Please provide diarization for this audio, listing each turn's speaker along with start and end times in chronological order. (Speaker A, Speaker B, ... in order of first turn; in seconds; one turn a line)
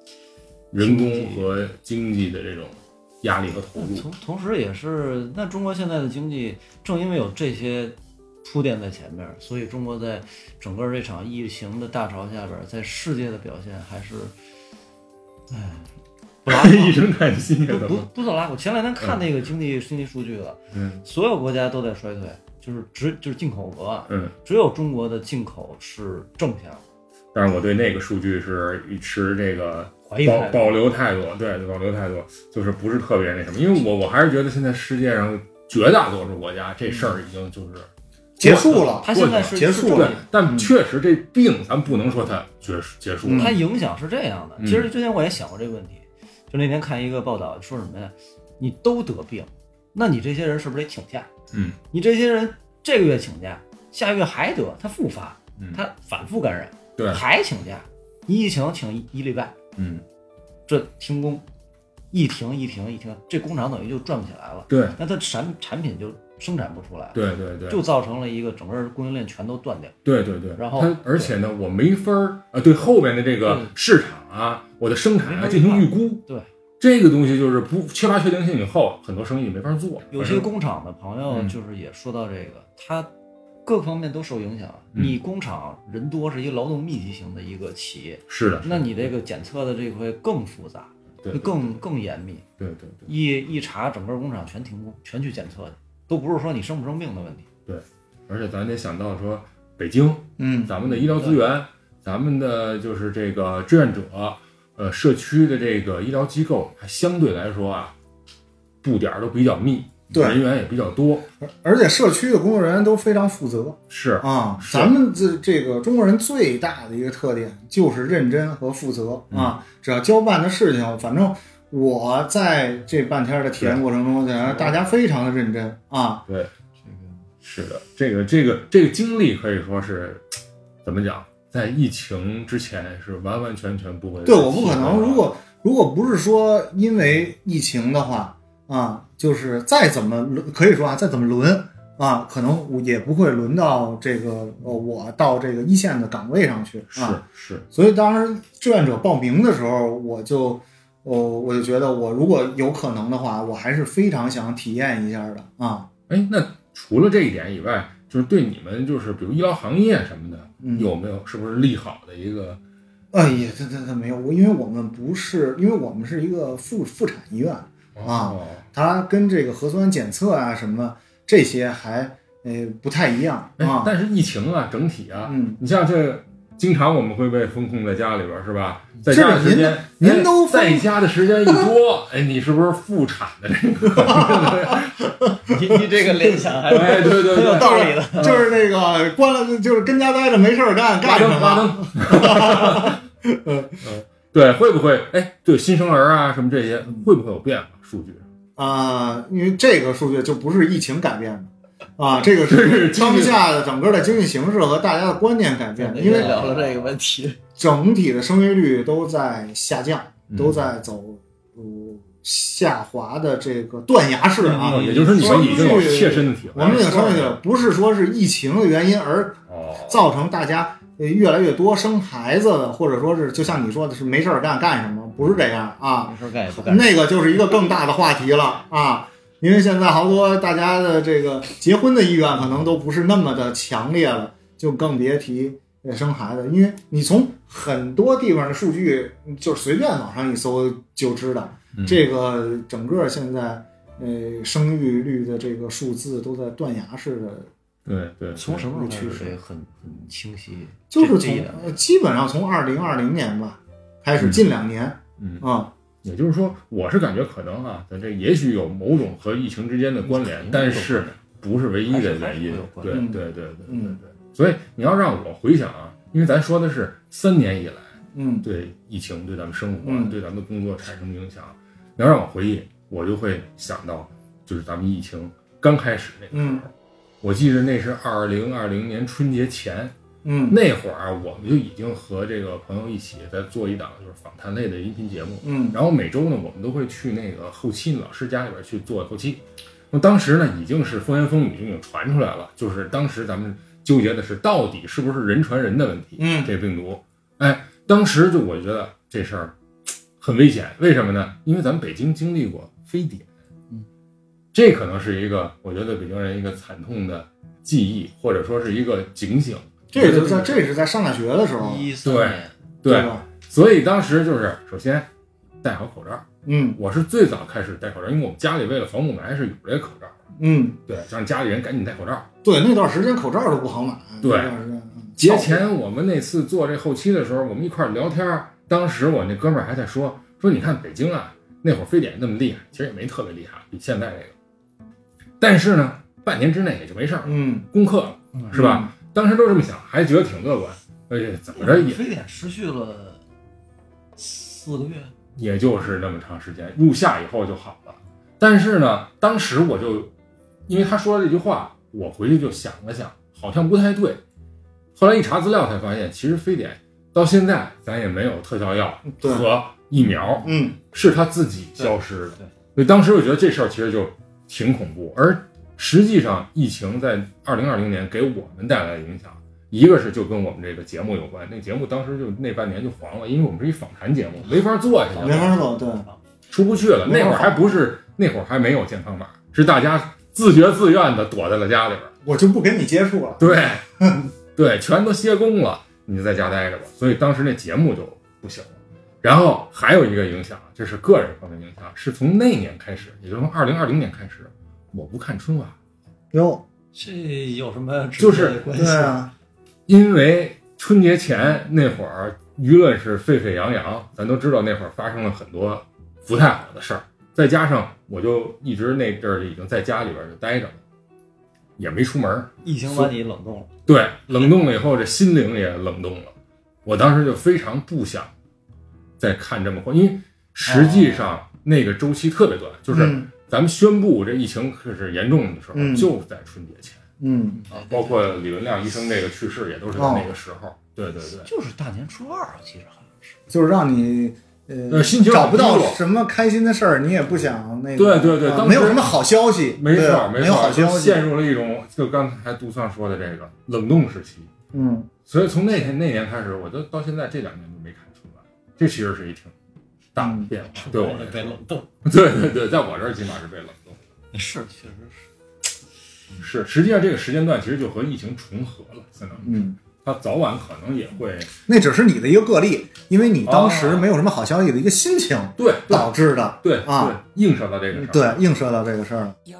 Speaker A: 0.7-4.1
Speaker B: 0.8-1.5
Speaker B: 3.7-14.3
Speaker B: 15.5-15.8
Speaker B: 16.4-17.0
Speaker A: 16.4-18.1
Speaker B: 17.7-26.8
Speaker A: 20.7-21.0
Speaker A: 24.1-24.3
Speaker A: 27.3-37.9
Speaker B: 30.1-30.8
Speaker C: 38.4-40.7
Speaker A: 38.4-43.6
Speaker B: 38.8-40.2
Speaker C: 43.2-43.5
Speaker B: 43.3-51.3
Speaker A: 44.6-44.9
Speaker A: 51.5-51.8
Speaker B: 51.9-59.6
Speaker A: 59.8-60.0
Speaker B: 60.7-61.5
Speaker B: 62.1-70.0
Speaker A: 64.7-65.0
Speaker A: 67.1-67.8
Speaker A: 70.0-76.2
Speaker B: 70.5-71.3
Speaker B: 73.4-73.7
Speaker B: 75.2-76.5
Speaker A: 76.8-80.5
Speaker B: 80.1-83.1
Speaker A: 81.3-81.5
Speaker B: 83.6-92.5
Speaker A: 88.3-89.1
Speaker A: 91.2-91.7
Speaker A: 92.6-93.1
Speaker B: 93.0-97.5
Speaker A: 97.7-107.9
Speaker C: 100.4-100.7
Speaker B: 100.8-101.4
Speaker A: 108.8-111.2
Speaker C: 110.1-110.4
Speaker C: 111.4-126.2
Speaker A: 113.9-114.9
Speaker A: 119.3-119.5
Speaker B: 126.8-127.2
Speaker A: 127.4-130.2
Speaker A: 130.8-135.3
Speaker C: 134.2-147.2
Speaker A: 146.9-147.6
Speaker C: 147.7-155.9
Speaker A: 156.1-162.6
Speaker C: 160.6-160.9
Speaker C: 163.1-173.9
Speaker A: 167.9-168.6
Speaker A: 173.6-185.1
Speaker C: 175.3-175.6
Speaker C: 179.1-180.9
Speaker C: 183.9-185.5
Speaker B: 185.4-188.4
Speaker A: 186.7-188.3
Speaker C: 187.5-193.8
Speaker A: 191.0-193.0
Speaker A: 193.8-198.3
Speaker C: 198.6-206.7
Speaker A: 202.4-203.5
Speaker B: 205.8-207.4
Speaker A: 206.0-206.5
Speaker C: 207.6-247.5
Speaker A: 210.3-210.7
Speaker B: 214.4-216.1
Speaker A: 214.5-217.3
Speaker A: 219.5-220.1
Speaker B: 226.0-227.0
Speaker A: 241.7-242.0
Speaker A: 247.8-248.9
Speaker B: 248.3-251.8
Speaker C: 248.7-249.3
Speaker C: 250.9-255.7
Speaker A: 254.2-254.4
Speaker A: 255.2-255.4
Speaker A: 256.0-276.7
Speaker B: 260.1-261.2
Speaker B: 261.9-263.1
Speaker C: 262.9-264.0
Speaker C: 268.1-268.4
Speaker C: 269.8-270.2
Speaker C: 276.3-276.6
Speaker A: 277.2-279.9
Speaker C: 280.2-280.6
Speaker A: 280.5-299.5
Speaker C: 285.4-285.8
Speaker C: 296.2-296.5
Speaker A: 300.2-303.3
Speaker A: 304.5-310.6
Speaker C: 309.9-311.9
Speaker B: 311.6-312.5
Speaker A: 312.0-315.1
Speaker C: 312.8-313.2
Speaker A: 315.6-316.2
Speaker C: 316.4-316.8
Speaker A: 316.8-320.1
Speaker C: 320.4-320.8
Speaker A: 320.9-322.3
Speaker C: 322.4-325.6
Speaker A: 324.2-324.6
Speaker A: 325.2-334.3
Speaker A: 335.4-342.0
Speaker C: 337.2-337.7
Speaker C: 338.5-338.9
Speaker B: 341.6-343.2
Speaker B: 344.2-345.1
Speaker A: 345.4-350.1
Speaker A: 350.7-354.2
Speaker A: 354.9-375.6
Speaker C: 359.1-359.5
Speaker C: 360.4-360.8
Speaker B: 361.8-362.5
Speaker B: 375.1-376.2
Speaker C: 375.2-376.1
Speaker A: 376.5-382.1
Speaker C: 377.1-377.6
Speaker C: 382.2-384.2
Speaker A: 383.4-395.7
Speaker C: 396.3-396.6
Speaker B: 396.9-399.2
Speaker A: 398.2-398.6
Speaker C: 398.7-399.3
Speaker A: 399.9-410.8
Speaker A: 411.8-413.1
Speaker B: 412.6-413.7
Speaker A: 413.9-416.3
Speaker A: 416.8-418.3
Speaker A: 419.2-427.0
Speaker B: 420.6-421.3
Speaker C: 422.9-423.3
Speaker C: 425.7-426.1
Speaker C: 427.2-427.6
Speaker B: 427.6-428.4
Speaker A: 427.7-431.5
Speaker C: 429.9-430.3
Speaker B: 431.4-433.4
Speaker C: 433.5-441.3
Speaker A: 434.9-436.0
Speaker A: 437.9-439.1
Speaker A: 439.8-444.5
Speaker C: 444.7-445.1
Speaker A: 445.3-449.5
Speaker A: 450.1-454.0
Speaker C: 450.2-450.5
Speaker B: 450.7-451.9
Speaker B: 454.3-455.2
Speaker A: 456.4-461.5
Speaker C: 459.4-459.8
Speaker C: 461.6-467.2
Speaker A: 463.4-464.1
Speaker A: 465.6-468.4
Speaker C: 467.9-469.4